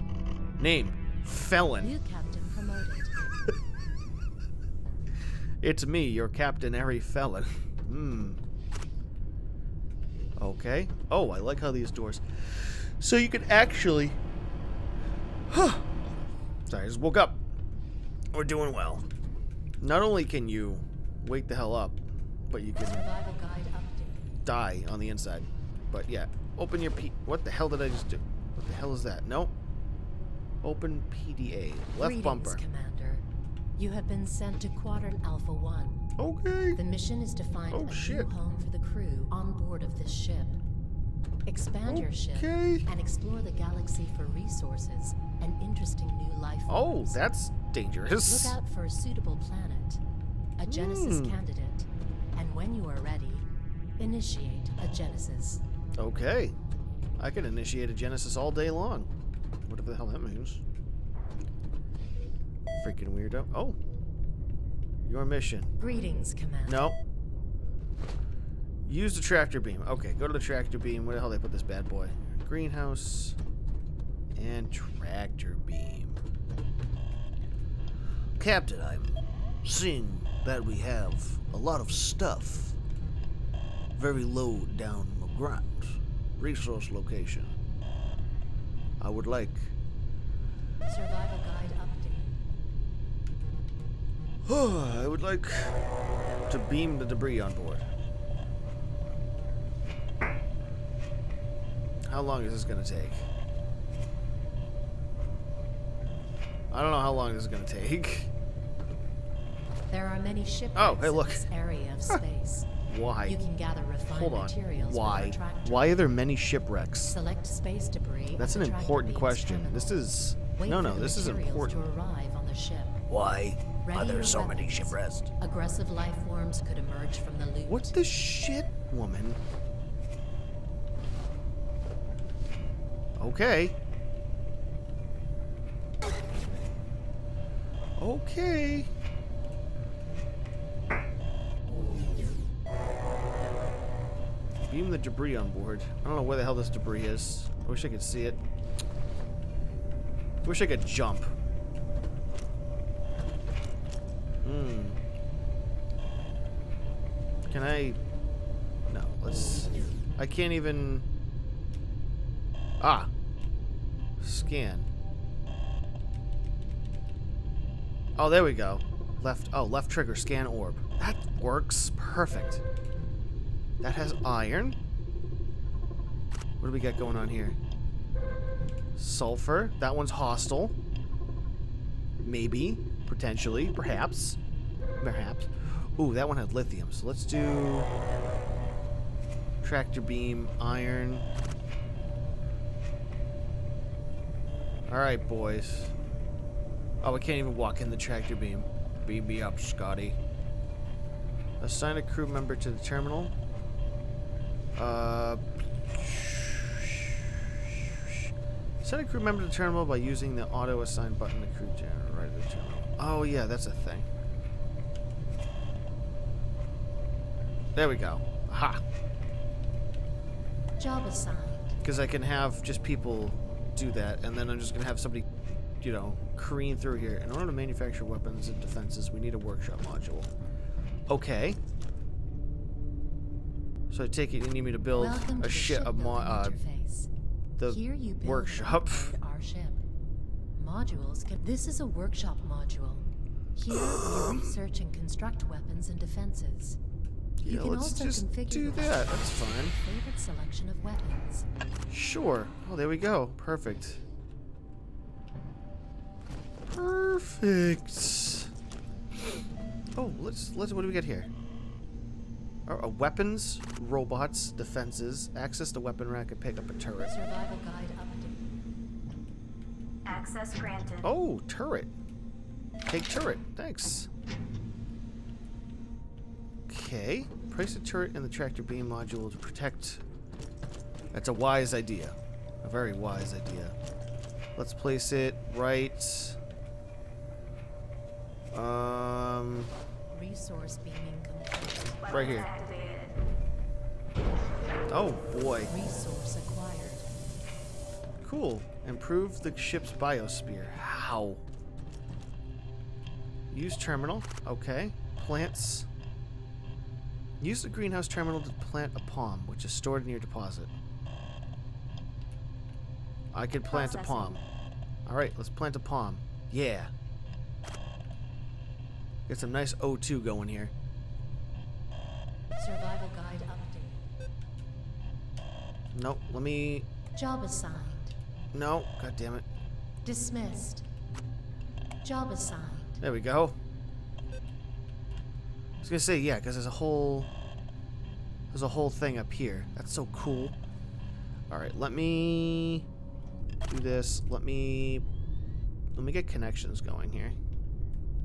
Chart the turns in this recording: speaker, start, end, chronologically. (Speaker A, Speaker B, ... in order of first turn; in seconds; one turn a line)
Speaker A: 0.6-1.9
Speaker B: 1.8-3.1
Speaker A: 5.6-8.4
Speaker A: 10.4-14.2
Speaker A: 15.5-15.9
Speaker A: 16.7-17.4
Speaker A: 18.3-19.1
Speaker A: 19.8-23.1
Speaker B: 22.8-24.3
Speaker A: 24.4-29.5
Speaker A: 30.6-32.6
Speaker B: 32.0-33.2
Speaker B: 33.8-36.1
Speaker A: 36.2-36.8
Speaker B: 36.7-40.6
Speaker A: 37.7-38.3
Speaker B: 41.5-47.2
Speaker A: 41.9-42.9
Speaker A: 46.7-48.5
Speaker B: 48.1-50.0
Speaker B: 50.6-53.5
Speaker A: 50.6-51.4
Speaker B: 54.0-55.6
Speaker A: 56.0-56.5
Speaker A: 57.2-59.1
Speaker A: 59.6-60.6
Speaker A: 62.8-63.8
Speaker A: 65.0-65.7
Speaker B: 65.8-66.9
Speaker A: 66.7-67.0
Speaker A: 68.8-73.4
Speaker A: 74.3-76.2
Speaker A: 78.4-82.8
Speaker A: 84.0-87.6
Speaker A: 89.0-89.7
Speaker B: 90.8-92.4
Speaker A: 94.4-95.8
Speaker A: 96.5-97.8
Speaker A: 102.0-103.3
Speaker A: 106.7-108.3
Speaker B: 109.9-112.7
Speaker A: 110.7-111.5
Speaker A: 112.8-113.4
Speaker B: 113.2-116.2
Speaker A: 114.1-117.2
Speaker B: 117.1-123.0
Speaker A: 118.4-121.8
Speaker A: 123.1-125.3
Speaker B: 123.8-128.0
Speaker A: 127.7-129.4
Speaker A: 133.2-133.8
Speaker A: 138.0-138.9
Speaker A: 144.6-148.4
Speaker A: 150.4-151.3
Speaker A: 154.4-155.0
Speaker A: 157.5-158.0
Speaker A: 158.9-161.1
Speaker A: 162.8-163.1
Speaker A: 164.2-164.9
Speaker A: 168.2-172.6
Speaker A: 173.8-174.8
Speaker A: 176.6-177.6
Speaker A: 178.9-180.8
Speaker A: 182.2-184.4
Speaker A: 185.0-187.9
Speaker A: 189.6-191.3
Speaker A: 194.9-195.9
Speaker A: 197.0-200.2
Speaker A: 201.6-203.3
Speaker A: 204.8-208.3
Speaker A: 208.8-214.1
Speaker A: 217.7-218.8
Speaker B: 220.8-221.8
Speaker A: 221.8-225.3
Speaker A: 225.8-230.3
Speaker A: 231.1-231.6
Speaker A: 233.9-236.6
Speaker B: 235.0-237.1
Speaker A: 237.6-239.1
Speaker B: 237.6-239.8
Speaker B: 240.6-246.8
Speaker A: 243.7-244.6
Speaker A: 247.4-249.7
Speaker B: 247.4-251.5
Speaker A: 251.9-254.0
Speaker A: 256.7-258.5
Speaker A: 259.9-261.3
Speaker A: 262.7-267.1
Speaker B: 267.0-268.6
Speaker C: 270.0-271.1
Speaker A: 271.0-271.9
Speaker A: 272.9-274.1
Speaker A: 276.7-280.0
Speaker A: 281.1-283.7
Speaker A: 284.6-286.4
Speaker A: 288.5-289.7
Speaker B: 290.1-292.0
Speaker C: 292.0-293.2
Speaker A: 292.1-292.5
Speaker A: 294.9-295.7
Speaker B: 295.7-297.1
Speaker A: 298.2-301.4
Speaker A: 303.5-305.9
Speaker A: 307.4-310.7
Speaker A: 313.3-314.4
Speaker C: 313.6-314.4
Speaker A: 315.1-316.9
Speaker A: 319.3-320.7
Speaker B: 322.6-324.1
Speaker A: 325.9-326.9
Speaker B: 327.1-328.1
Speaker A: 328.5-329.4
Speaker B: 330.0-330.8
Speaker B: 332.0-333.0
Speaker A: 333.0-333.6
Speaker A: 335.8-337.3
Speaker A: 338.5-340.6
Speaker A: 341.5-342.9
Speaker A: 343.7-345.1
Speaker A: 345.9-347.4